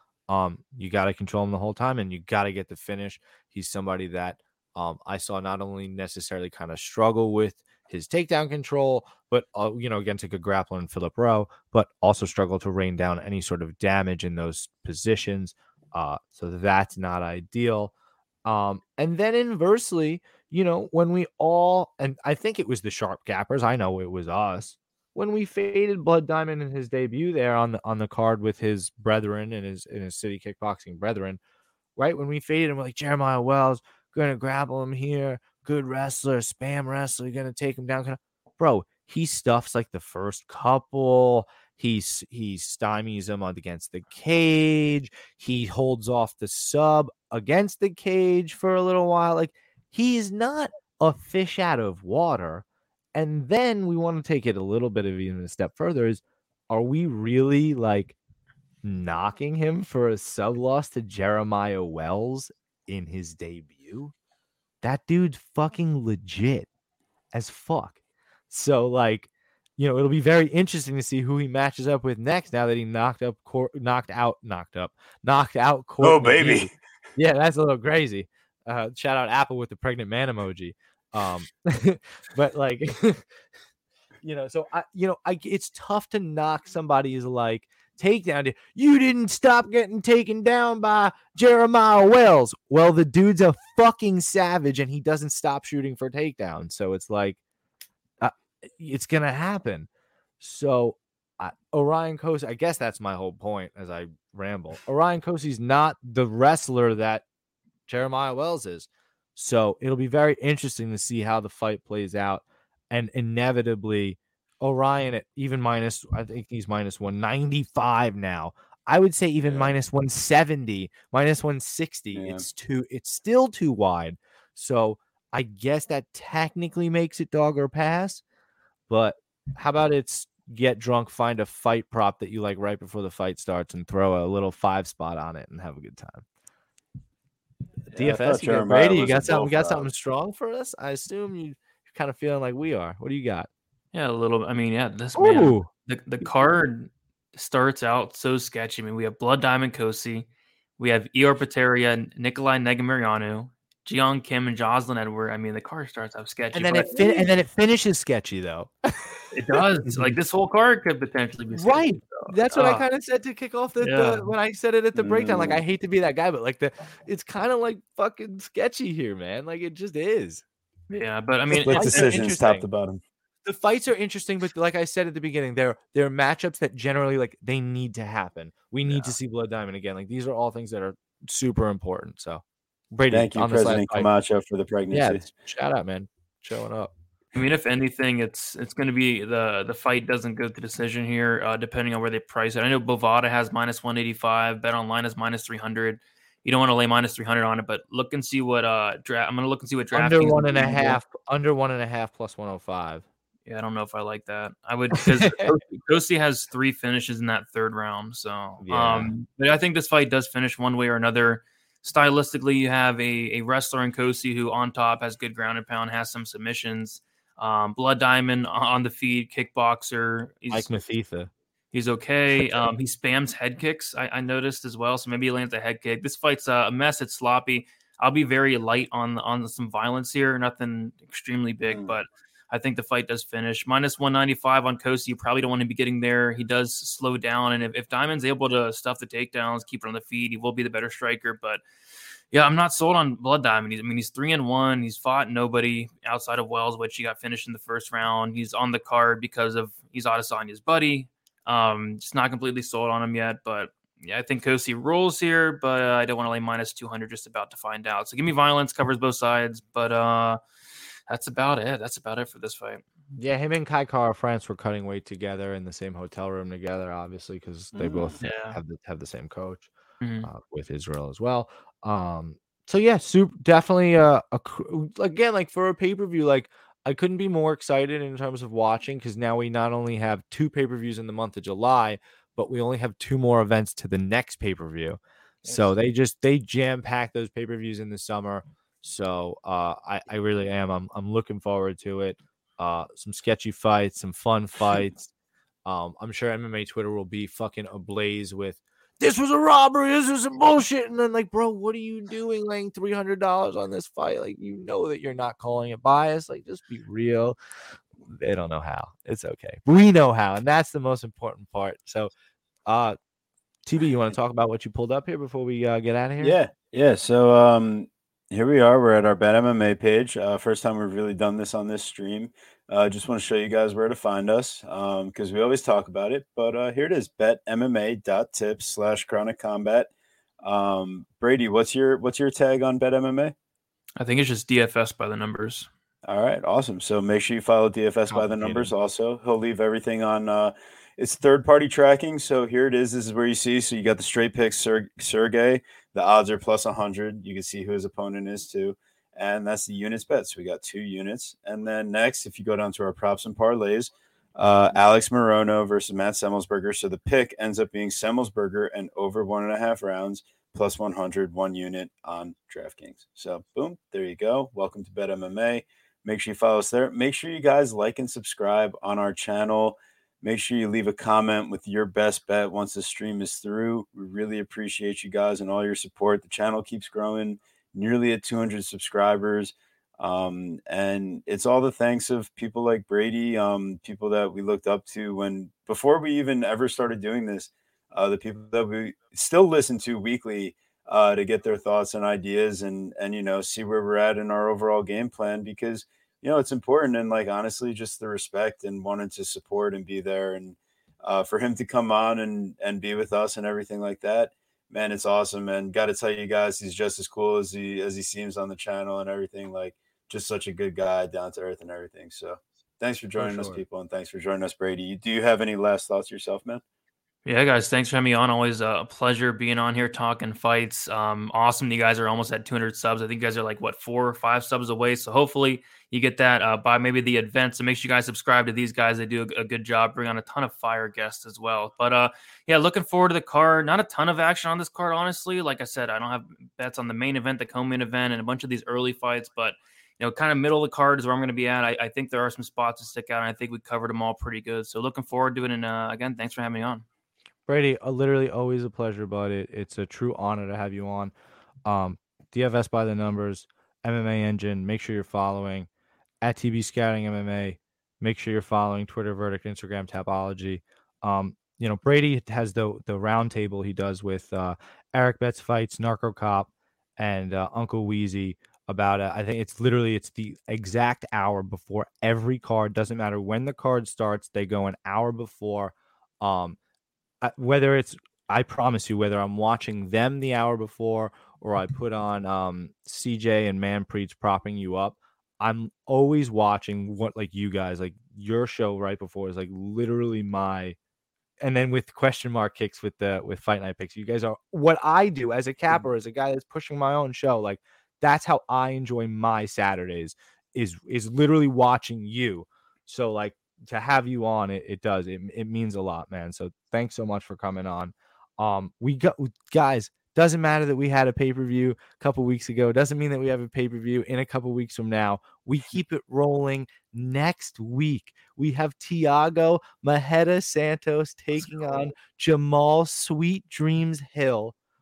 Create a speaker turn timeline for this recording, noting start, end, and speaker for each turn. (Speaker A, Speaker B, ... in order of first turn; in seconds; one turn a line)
Speaker A: 0.3-17.9
Speaker A: 18.4-31.4
Speaker A: 31.9-58.1
Speaker A: 58.8-64.1
Speaker A: 64.8-66.7
Speaker A: 67.3-68.0
Speaker A: 68.5-83.2
Speaker B: 76.0-76.7
Speaker A: 84.2-97.4
Speaker A: 98.2-99.9
Speaker A: 100.4-107.2
Speaker A: 107.9-128.2
Speaker B: 119.4-119.7
Speaker B: 122.1-122.4
Speaker A: 128.9-136.2
Speaker B: 137.9-139.9
Speaker A: 137.9-143.5
Speaker C: 143.9-150.3
Speaker A: 145.2-145.7
Speaker C: 150.8-157.3
Speaker A: 156.5-159.6
Speaker C: 159.3-162.8
Speaker A: 161.5-170.4
Speaker C: 163.8-164.3
Speaker B: 164.9-165.6
Speaker C: 170.9-172.1
Speaker A: 171.5-172.6
Speaker B: 171.6-173.0
Speaker A: 173.4-184.1
Speaker B: 183.1-185.3
Speaker A: 184.9-186.9
Speaker C: 187.3-201.0
Speaker A: 199.9-203.0
Speaker C: 203.5-220.7
Speaker A: 208.6-209.1
Speaker A: 220.5-221.3
Speaker C: 221.7-241.6
Speaker A: 222.4-222.7
Speaker C: 242.3-260.4
Speaker C: 261.1-262.8
Speaker A: 263.1-269.7
Speaker B: 267.7-268.2
Speaker C: 268.2-268.6
Speaker C: 270.0-270.3
Speaker A: 270.2-295.1
Speaker A: 295.6-307.4
Speaker A: 308.0-312.1
Speaker A: 312.7-312.9
Speaker A: 313.6-316.4
Speaker B: 316.2-329.9
Speaker B: 330.4-333.3
Speaker C: 334.0-335.7
Speaker B: 336.1-416.6
Speaker A: 338.1-338.7
Speaker A: 413.2-413.6
Speaker C: 417.2-446.8
Speaker A: 447.5-451.1
Speaker A: 451.6-455.7
Speaker A: 456.2-476.6
Speaker A: 477.2-490.8
Speaker A: 491.4-524.5